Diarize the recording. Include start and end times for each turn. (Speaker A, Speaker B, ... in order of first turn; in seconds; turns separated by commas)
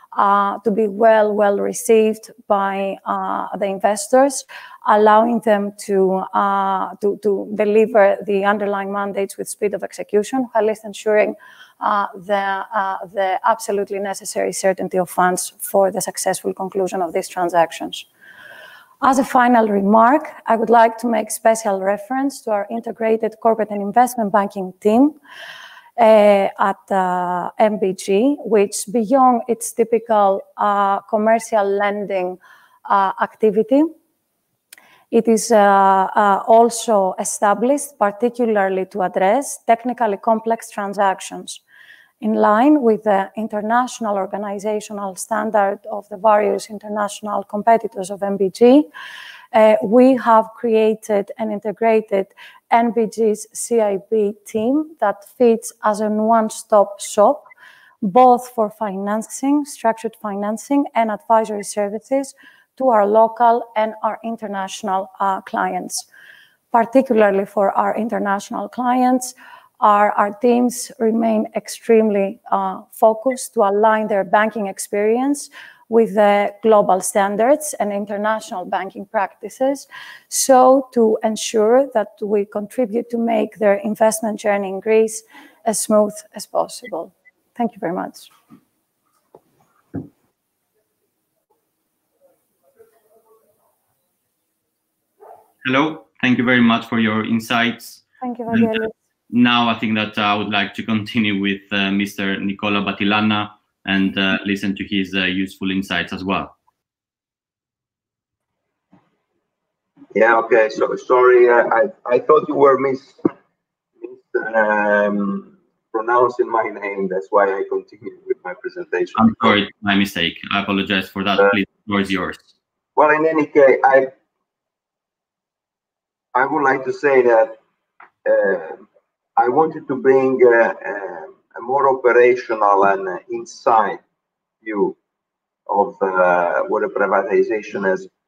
Speaker A: 0.1-18.1, Speaker A: 19.0-25.2, Speaker A: 26.0-33.9, Speaker A: 35.1-41.6, Speaker A: 42.2-48.9, Speaker A: 49.5-57.5, Speaker A: 58.0-66.1, Speaker A: 66.7-88.3, Speaker B: 95.6-106.5, Speaker A: 98.2-98.9, Speaker C: 110.1-113.2, Speaker C: 114.0-119.6, Speaker B: 119.2-122.5, Speaker C: 123.0-124.1, Speaker C: 126.3-127.6, Speaker C: 128.2-128.8, Speaker C: 129.4-134.0, Speaker C: 134.6-135.0, Speaker C: 135.7-138.1